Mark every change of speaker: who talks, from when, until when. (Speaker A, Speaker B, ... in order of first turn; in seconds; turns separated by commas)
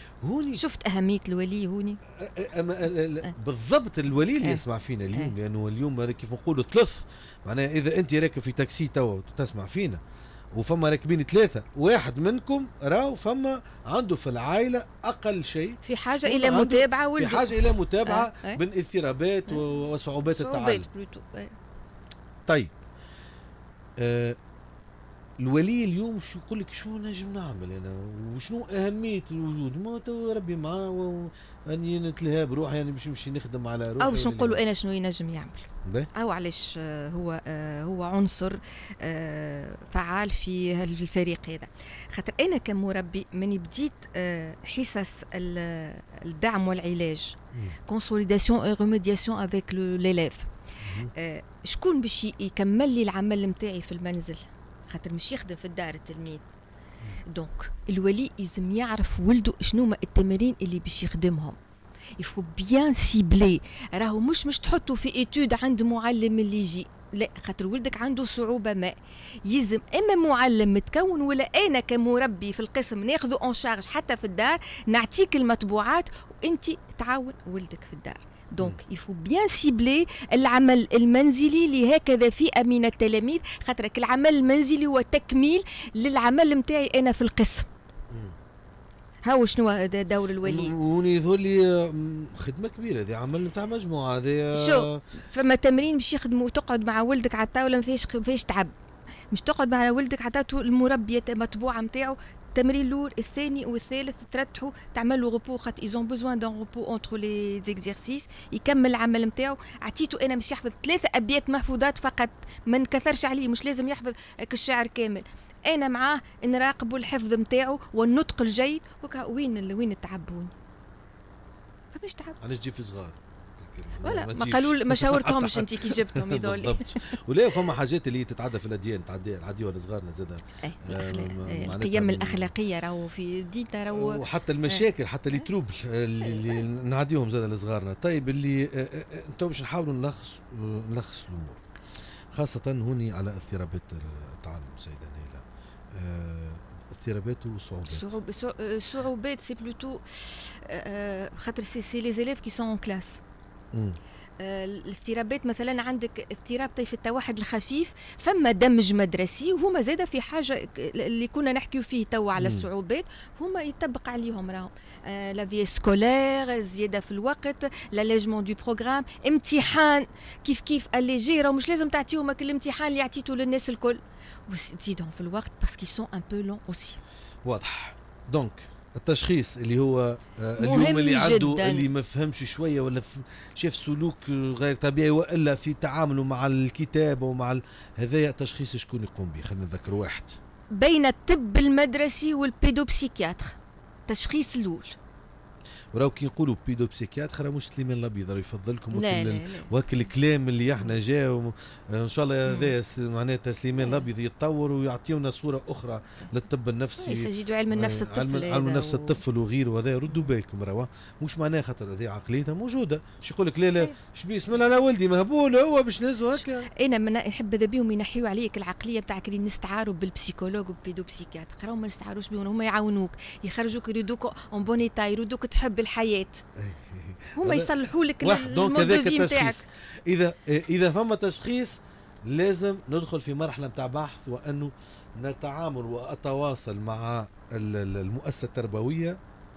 Speaker A: 0.2-0.6, Speaker B: 0.5-2.0, Speaker A: 2.1-10.0, Speaker B: 4.4-5.3, Speaker A: 10.5-20.9, Speaker B: 15.8-18.6, Speaker B: 20.2-21.6, Speaker A: 22.5-22.7, Speaker A: 24.0-24.4, Speaker A: 25.4-34.6, Speaker B: 34.0-56.5, Speaker A: 47.5-47.8, Speaker A: 50.8-51.1, Speaker B: 57.2-61.6, Speaker B: 62.2-87.7, Speaker A: 88.1-88.3, Speaker B: 89.2-90.7, Speaker A: 90.4-95.0, Speaker B: 94.5-98.7, Speaker B: 99.3-120.5, Speaker B: 121.9-122.4, Speaker A: 122.4-132.5, Speaker B: 124.0-127.7, Speaker B: 130.6-135.4, Speaker A: 133.9-141.6, Speaker B: 136.2-136.6, Speaker A: 142.3-145.4, Speaker A: 145.9-148.1, Speaker B: 147.9-153.2, Speaker B: 154.4-177.0, Speaker A: 162.4-162.7, Speaker A: 177.4-190.4, Speaker B: 180.6-181.8, Speaker B: 190.7-194.9, Speaker A: 195.9-216.7, Speaker B: 198.9-199.7, Speaker B: 202.4-202.8, Speaker B: 203.8-204.1, Speaker B: 207.0-209.2, Speaker B: 216.4-226.4, Speaker A: 226.6-239.2, Speaker B: 227.4-229.6